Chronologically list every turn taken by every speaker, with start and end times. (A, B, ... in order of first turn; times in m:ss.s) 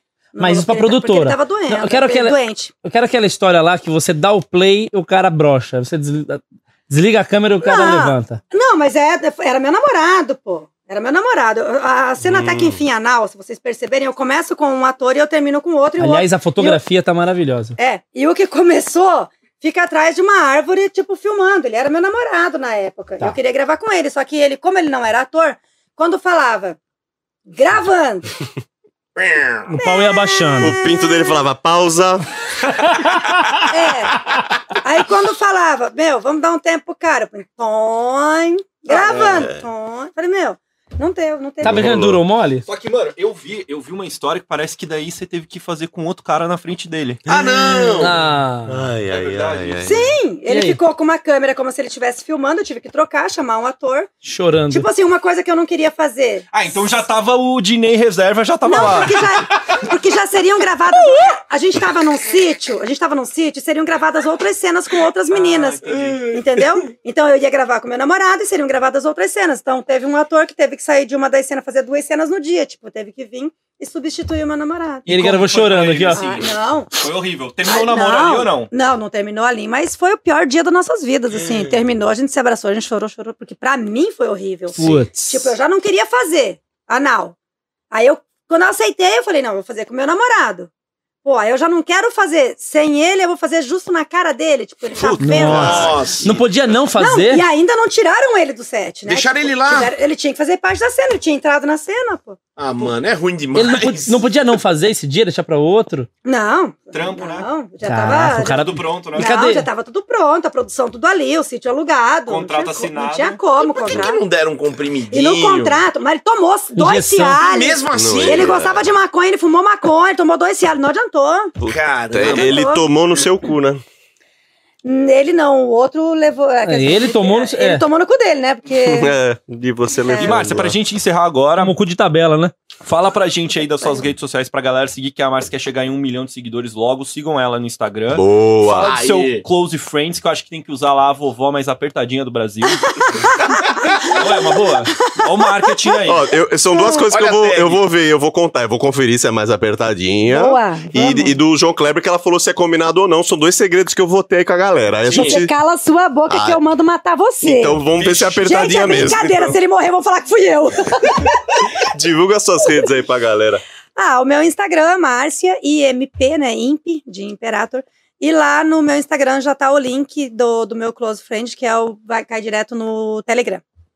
0:00.4-0:02.7 A
0:00.4-0:08.4 B
0:07.6-0:16.8 A
0:12.2-0:12.8 C
0:16.0-0:17.8 B
0:17.8-0:26.8 A
0:27.5-0:28.3 A
0:29.2-0:29.6 D
0:29.7-0:30.8 B
0:29.8-0:31.4 A
0:30.6-0:32.2 C
0:32.9-0:33.4 B
0:33.7-0:34.2 A
0:34.8-0:42.0 A
0:39.0-0:39.4 D
0:39.2-0:39.6 C
0:41.6-0:42.2 C
0:41.6-0:42.6 B
0:42.7-0:47.2 E
0:47.3-0:48.2 D
0:47.3-0:48.2 C
0:48.0-0:48.8 B
0:48.7-0:50.1 C
0:49.1-0:49.8 E
0:49.8-0:54.1 A
0:50.5-0:50.8 B
0:54.2-0:54.9 B
0:54.7-0:56.5 A
0:56.5-0:59.4 E
0:58.6-1:15.1 A
1:05.3-1:06.3 E
1:15.1-1:18.7 E
1:15.1-1:16.2 B
1:16.2-1:16.9 A
1:17.7-1:27.4 A
1:24.7-1:25.5 B
1:27.9-1:30.7 A
1:31.2-1:36.0 A
1:35.0-1:36.1 C
1:35.2-1:37.4 B
1:35.4-1:36.5 D
1:37.0-1:42.4 A
1:39.1-1:39.9 D
1:42.6-1:44.2 D
1:43.5-1:46.1 B
1:46.2-1:54.2 A
1:46.9-1:47.5 E
1:47.8-1:49.7 B
1:48.3-1:49.4 E
1:52.3-1:53.4 E
1:53.6-1:55.8 D
1:55.1-2:01.5 A
1:56.8-1:57.4 B
1:57.4-1:58.6 D
1:57.9-1:58.9 C
2:01.6-2:03.8 C
2:01.7-2:02.6 D
2:02.3-2:02.9 A
2:04.8-2:09.1 A
2:06.6-2:07.8 B
2:08.8-2:10.8 C
2:10.0-2:10.4 A
2:10.2-2:11.8 E
2:11.6-2:12.5 B
2:12.8-2:23.3 E
2:18.1-2:19.0 C
2:18.7-2:19.4 D
2:22.9-2:24.2 A
2:24.0-2:26.3 E
2:24.7-2:25.9 A
2:26.1-2:35.5 C
2:26.7-2:27.1 A
2:27.1-2:27.8 D
2:30.3-2:31.3 A
2:35.1-2:37.8 A
2:35.1-2:35.4 D
2:36.3-2:36.6 C
2:37.4-2:39.6 C
2:38.0-2:38.4 E
2:38.4-2:41.4 A
2:41.8-2:43.6 C
2:44.0-2:53.6 A